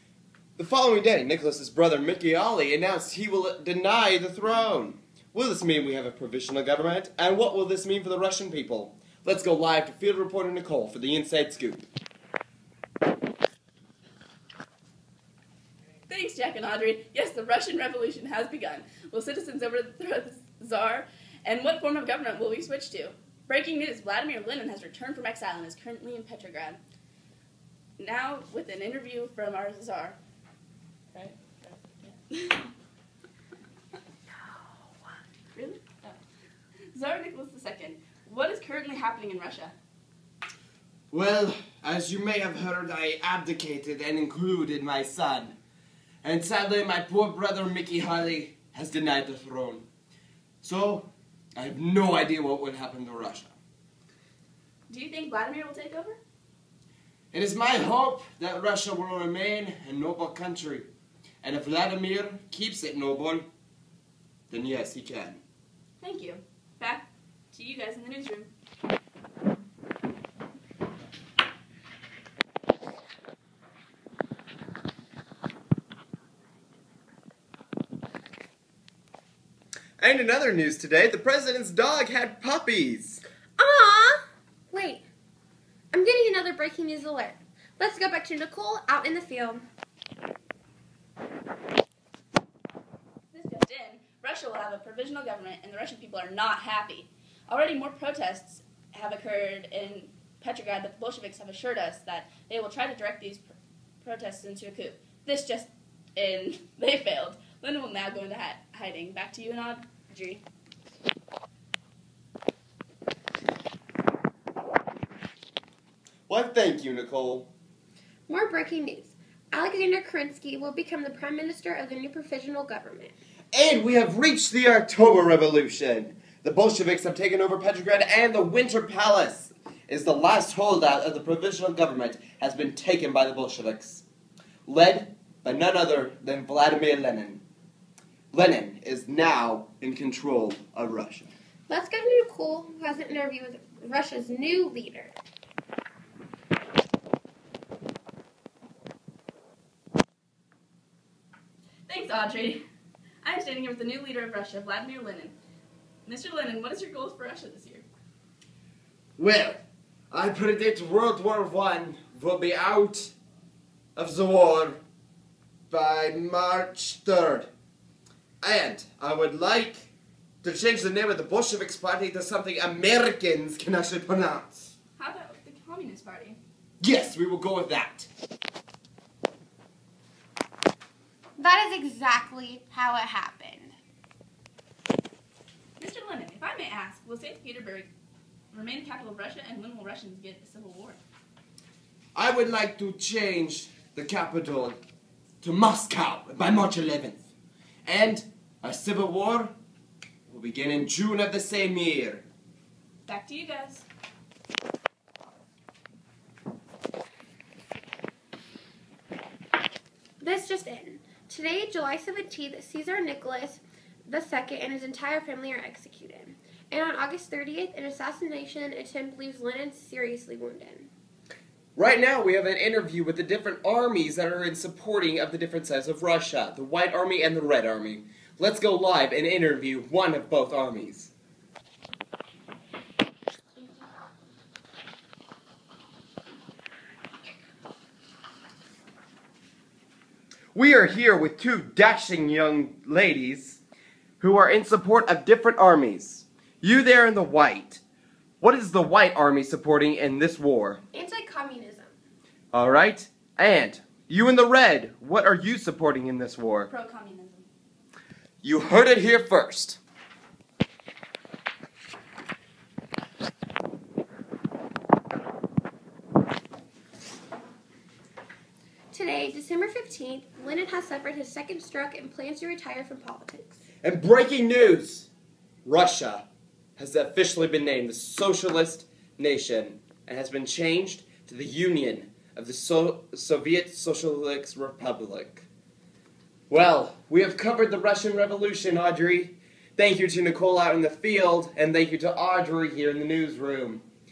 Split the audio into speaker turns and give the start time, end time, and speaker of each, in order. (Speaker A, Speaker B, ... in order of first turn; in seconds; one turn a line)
Speaker A: 0.6-11.8
Speaker B: 16.1-26.8
Speaker B: 28.0-30.2
Speaker B: 31.1-32.7
Speaker B: 35.5-36.2
Speaker B: 36.9-39.7
Speaker A: 41.1-45.6
Speaker A: 46.2-49.9
Speaker A: 50.6-53.5
Speaker B: 54.9-56.2
Speaker A: 57.3-60.9
Speaker A: 61.4-63.5
Speaker A: 64.5-65.4
Speaker B: 66.0-68.5
Speaker A: 80.0-83.2
Speaker C: 83.6-85.0
Speaker C: 85.9-89.7
Speaker B: 93.3-110.4
Speaker A: 116.3-117.5
Speaker C: 118.3-123.1
Speaker A: 123.5-134.1
Speaker A: 134.7-137.4
Speaker A: 138.3-141.3
Speaker C: 141.7-145.2
Speaker B: 151.9-152.6
Speaker B: 153.2-155.3
Speaker B: 156.1-157.9
Speaker A: 159.2-163.1
Speaker A: 164.0-164.8
Speaker A: 165.7-167.5
Speaker A: 168.4-169.9
Speaker A: 170.4-174.7
Speaker B: 175.0-176.4
Speaker A: 176.8-178.1
Speaker C: 181.4-183.7
Speaker B: 185.8-187.9
Speaker B: 188.5-191.0
Speaker A: 192.2-194.8
Speaker A: 195.4-197.2
Speaker A: 197.8-199.5
Speaker A: 200.3-202.2
Speaker B: 203.1-203.8
Speaker C: 210.2-220.9
Speaker A: 221.8-231.1
Speaker A: 240.5-243.6
Speaker A: 244.2-247.8
Speaker A: 248.4-250.8
Speaker C: 250.9-251.9
Speaker A: 252.5-256.7
Speaker B: 256.7-257.5
Speaker A: 258.4-259.8
Speaker C: 268.9-273.6
Speaker A: 273.8-275.1
Speaker A: 275.6-276.2
Speaker A: 276.8-285.5
Speaker A: 286.5-293.8